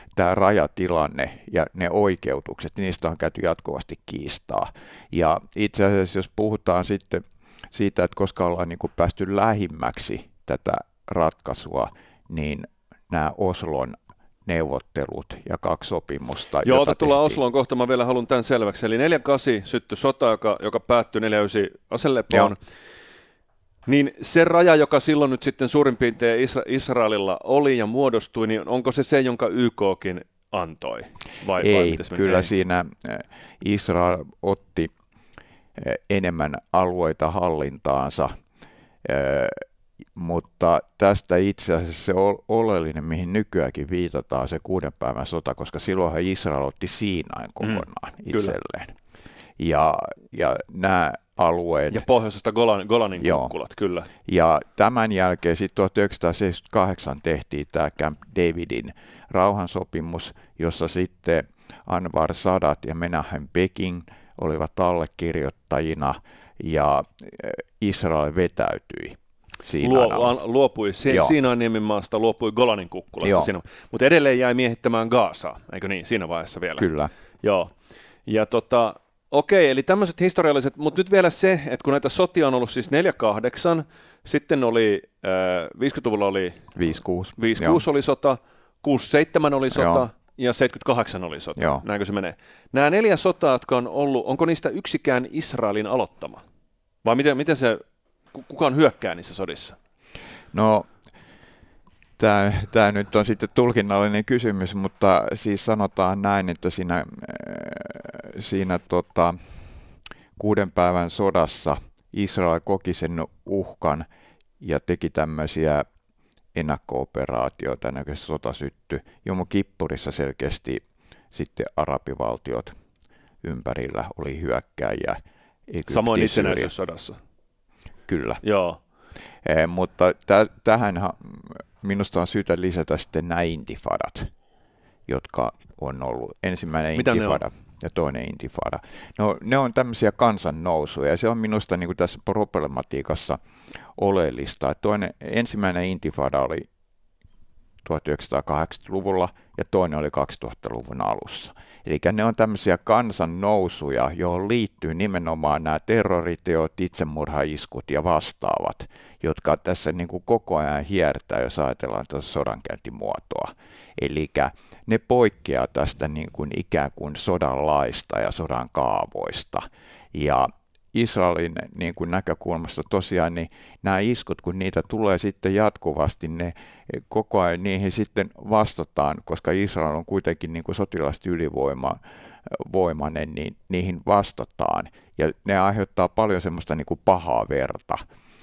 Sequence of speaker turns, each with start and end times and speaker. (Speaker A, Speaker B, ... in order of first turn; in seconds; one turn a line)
Speaker A: 0.1-17.4
Speaker B: 16.6-22.6
Speaker B: 23.9-32.5
Speaker A: 31.6-34.9
Speaker A: 35.8-38.3
Speaker A: 39.0-39.6
Speaker A: 40.1-48.9
Speaker B: 47.6-48.5
Speaker A: 49.6-52.0
Speaker B: 51.9-54.1
Speaker A: 53.2-53.5
Speaker A: 54.2-70.3
Speaker B: 69.8-76.9
Speaker A: 71.1-71.3
Speaker A: 73.2-73.5
Speaker A: 76.8-77.1
Speaker B: 77.4-77.7
Speaker B: 78.2-86.7
Speaker A: 86.8-87.8
Speaker B: 87.4-96.4
Speaker A: 89.7-90.0
Speaker A: 91.5-91.8
Speaker B: 97.0-97.8
Speaker B: 98.3-99.7
Speaker A: 100.5-100.9
Speaker A: 102.2-109.4
Speaker A: 110.4-114.0
Speaker A: 114.6-115.8
Speaker A: 116.5-120.8
Speaker A: 121.3-122.7
Speaker A: 123.4-126.7
Speaker B: 125.9-127.2
Speaker A: 128.1-128.4
Speaker B: 128.4-128.8
Speaker A: 129.4-134.3
Speaker A: 135.1-143.4
Speaker B: 136.9-137.4
Speaker A: 143.9-146.7
Speaker A: 147.8-188.0